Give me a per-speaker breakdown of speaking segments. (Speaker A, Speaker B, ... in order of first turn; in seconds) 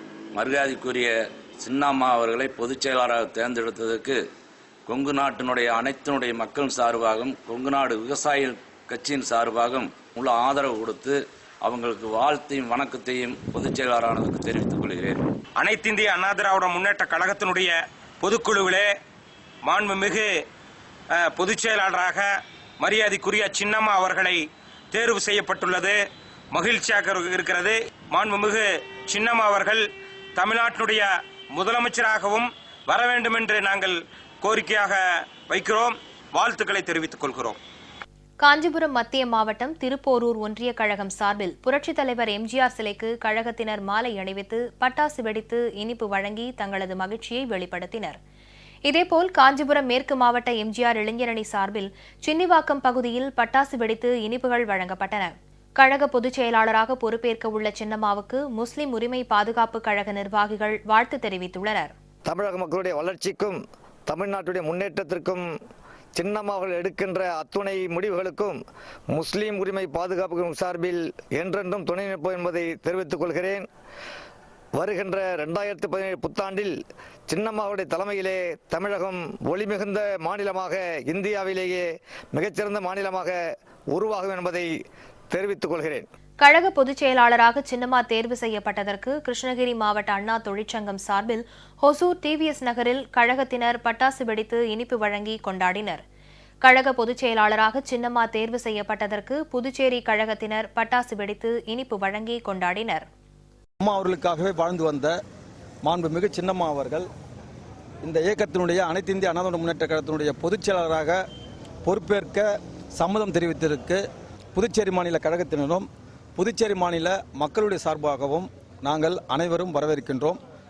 Speaker A: 0.3-4.2, 4.9-15.2
Speaker B: 15.6-18.9, 19.6-20.4, 21.1-37.6
Speaker C: 38.4-48.2, 48.9-61.9, 86.4-96.0, 96.6-103.1
Speaker D: 62.3-65.5, 66.2-68.6, 69.1-73.7, 74.8-76.8, 77.3-83.4, 83.9-84.7, 85.3-86.1
Speaker E: 103.8-105.2, 105.8-107.1, 108.0-111.2, 111.8-114.0, 114.5-120.4